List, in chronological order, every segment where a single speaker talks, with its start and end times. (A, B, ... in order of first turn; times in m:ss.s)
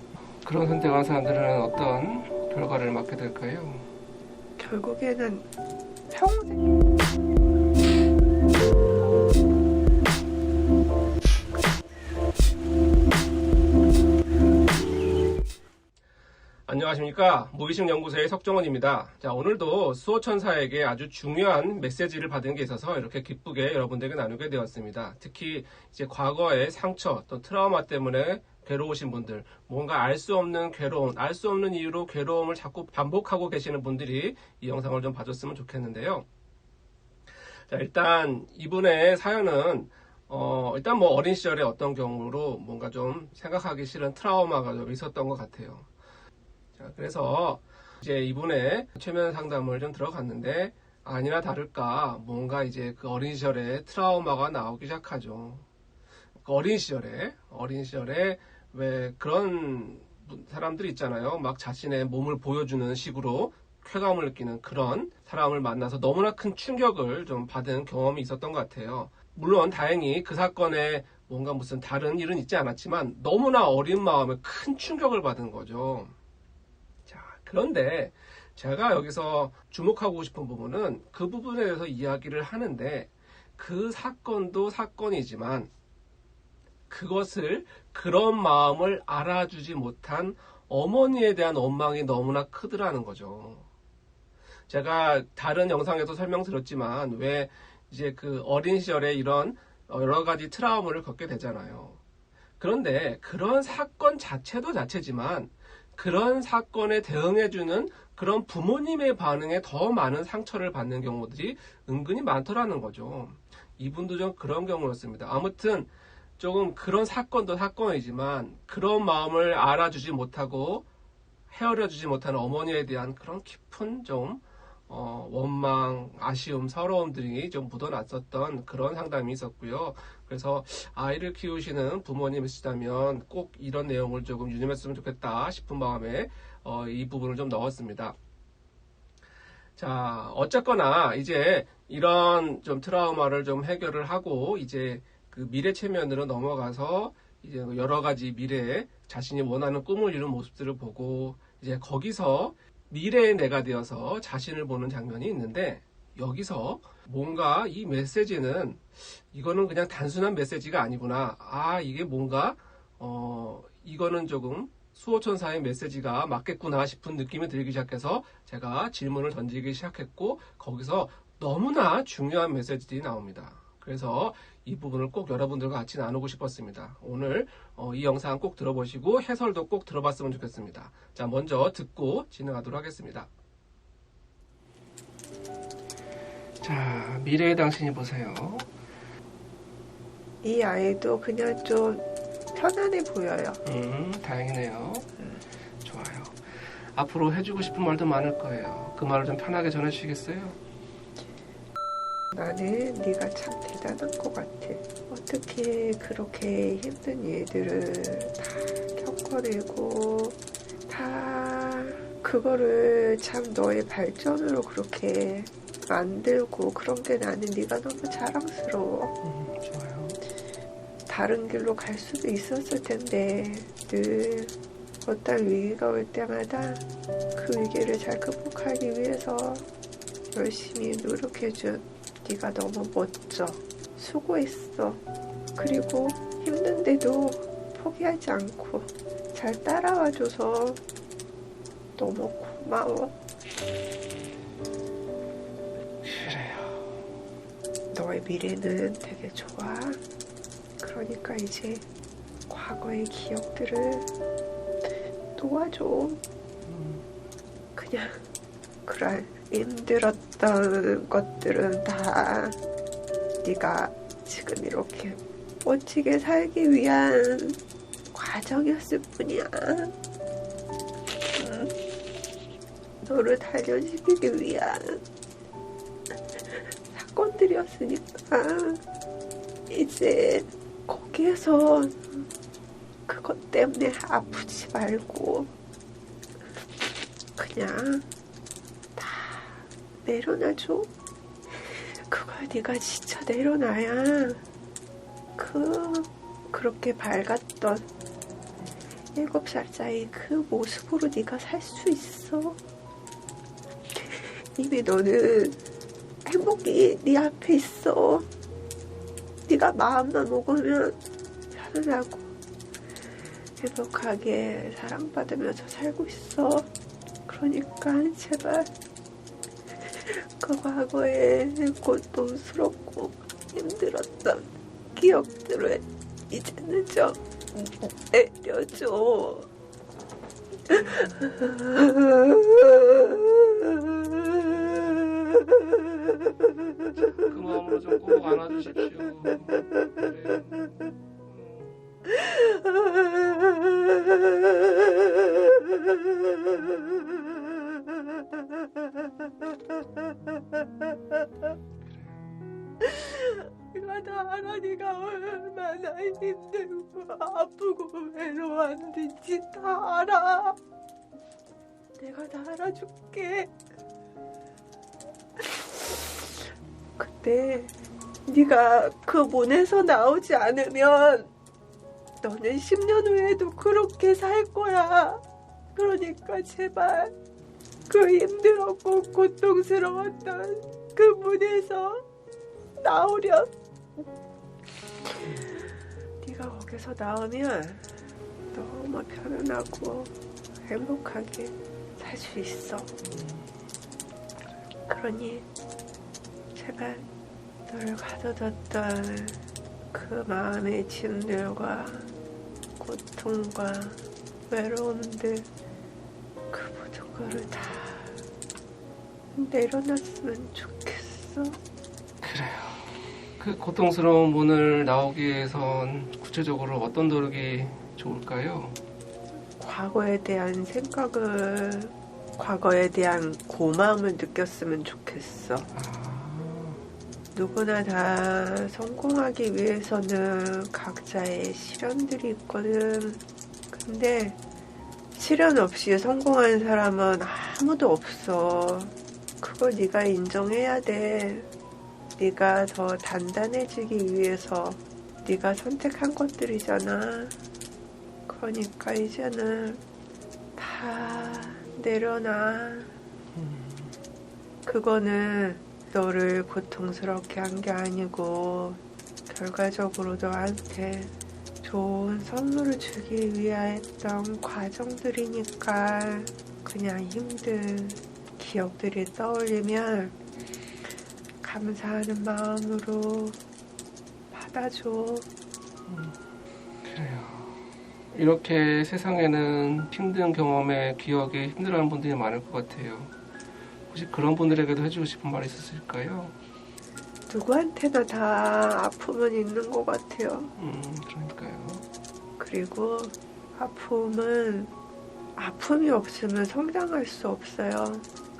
0:00.4-0:03.9 A
0:04.6-0:05.5 B
0:06.1-0:06.8 B
0:16.7-0:36.2 A
0:37.7-0:45.9 A
0:46.8-0:55.7 A
0:56.4-1:16.1 A
1:17.0-1:25.7 A
1:26.9-1:33.7 A
1:34.7-1:42.0 A
1:42.6-2:00.8 A
2:01.5-2:18.2 A
2:19.8-3:03.3 A
3:06.6-3:08.7 A
3:10.4-3:13.6 B
3:13.6-3:15.1 A
3:15.8-3:20.6 A
3:22.3-3:39.1 B
3:39.2-3:40.2 A
3:41.1-3:46.8 B
3:47.3-3:49.6 B
3:50.3-3:55.0 B
3:55.6-4:00.8 B
4:02.0-4:03.2 B
4:06.0-4:07.0 A
4:07.9-4:10.0 B
4:10.8-4:11.8 B
4:12.5-4:14.1 B
4:15.4-4:16.2 B
4:16.6-4:17.1 A
4:17.8-4:18.2 B
4:18.8-4:22.6 B
4:23.4-4:27.6 B
4:28.1-4:29.9 B
4:31.3-4:31.7 B
4:33.0-4:35.0 B
4:36.9-4:38.8 B
4:39.7-4:42.2 B
4:43.1-4:45.5 B
4:47.4-4:48.1 B
4:49.0-4:50.9 B
4:52.1-4:54.4 B
4:55.4-4:57.9 B
4:59.1-5:02.6 B
5:04.0-5:05.6 B
5:06.2-5:08.3 B
5:09.5-5:11.0 B
5:11.5-5:12.3 B
5:13.6-5:16.7 B
5:17.3-5:18.7 B
5:19.9-5:29.5 B
5:30.7-5:36.2 B
5:37.0-5:42.3 A
5:46.5-5:47.0 B
5:51.8-5:52.2 A
5:52.8-6:00.6 B
6:02.0-6:03.5 B
6:05.4-6:06.3 B
6:07.0-6:07.7 B
6:08.3-6:11.3 B
6:12.2-6:15.2 B
6:15.8-6:17.1 B
6:17.9-6:22.0 B
6:22.8-6:23.5 B
6:25.2-6:25.5 A
6:26.2-6:27.9 B
6:28.5-6:30.1 B
6:30.6-6:32.9 B
6:33.0-6:33.5 A
6:34.9-6:35.5 B
6:36.6-6:37.1 B
6:37.7-6:39.4 B
6:39.9-6:42.1 B
6:42.8-6:45.5 B
6:46.5-6:48.2 B
6:49.4-6:51.6 B
6:52.2-6:58.8 A
6:59.6-7:05.7 B
7:05.7-7:06.8 A
7:07.3-7:14.4 B
7:15.2-7:21.5 B
7:22.2-7:27.4 B
7:28.3-7:29.8 B
7:30.6-7:32.9 B
7:33.3-7:34.0 A
7:34.6-7:50.2 B
7:51.4-7:53.4 B
7:54.3-7:55.3 B
7:55.9-7:56.2 A
7:56.8-7:57.6 A
7:58.1-8:03.2 A
8:03.9-8:06.4 A
8:07.3-8:10.5 B
8:10.6-8:11.8 A
8:12.4-8:14.7 B
8:15.4-8:18.1 B